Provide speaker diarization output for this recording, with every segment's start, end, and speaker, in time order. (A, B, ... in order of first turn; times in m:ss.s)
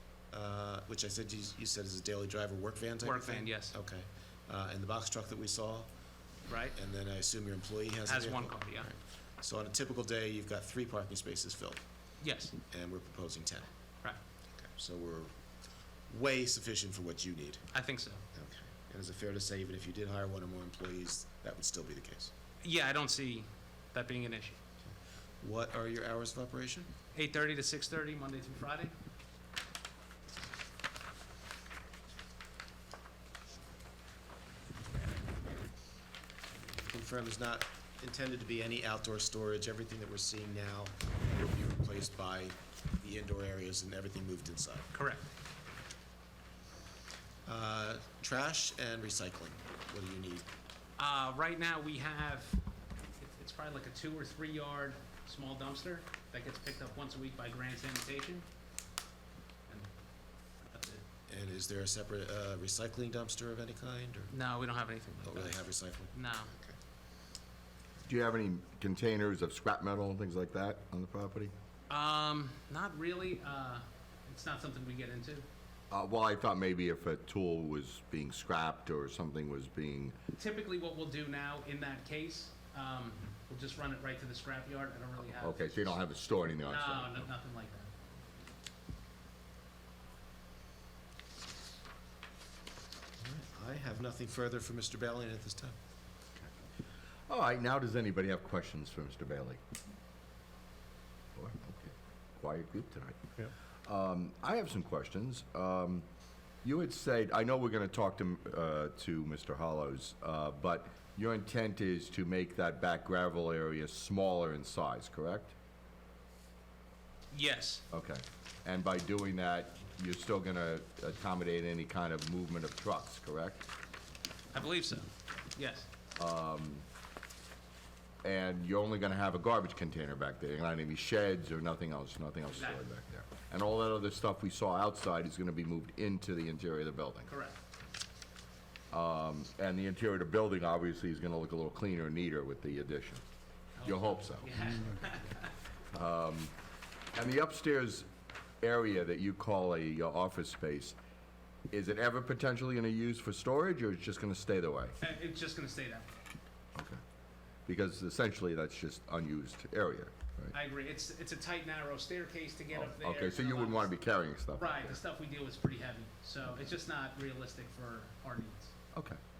0:00.3-0:05.9 A
0:03.0-0:03.8 B
0:06.5-0:06.7 B
0:06.7-0:11.9 A
0:08.0-0:08.9 B
0:12.2-0:12.5 B
0:12.7-0:13.7 A
0:14.7-0:15.4 A
0:16.1-0:17.7 A
0:17.7-0:18.2 B
0:18.3-0:22.3 A
0:22.6-0:24.6 B
0:24.8-0:26.9 A
0:27.1-0:29.0 B
0:36.9-0:44.9 A
0:44.9-0:45.3 B
0:47.4-0:50.5 A
0:51.0-0:52.7 B
0:53.2-0:58.4 B
1:00.5-1:01.0 B
1:01.3-1:04.3 A
1:04.3-1:06.5 B
1:05.2-1:06.8 A
1:08.0-1:11.5 C
1:11.9-1:15.4 B
1:15.9-1:20.2 C
1:20.4-1:26.0 B
1:25.3-1:27.3 C
1:26.7-1:27.9 B
1:33.2-1:35.8 A
1:37.3-1:39.6 C
1:41.3-1:43.3 C
1:43.9-1:46.1 C
1:46.6-1:55.6 C
1:57.3-1:57.8 B
1:57.9-2:03.7 C
2:04.5-2:05.9 B
2:06.1-2:06.9 C
2:08.2-2:17.3 C
2:12.5-2:12.8 B
2:17.3-2:17.6 B
2:18.9-2:23.2 C
2:23.8-2:25.5 B
2:23.8-2:24.9 C
2:25.9-2:26.5 C
2:27.1-2:28.1 C
2:28.6-2:31.0 C
2:31.7-2:35.0 C
2:35.0-2:36.2 B
2:37.7-2:40.5 C
2:40.5-2:43.9 B
2:42.7-2:45.0 C
2:44.5-2:48.7 B
2:48.9-2:49.2 C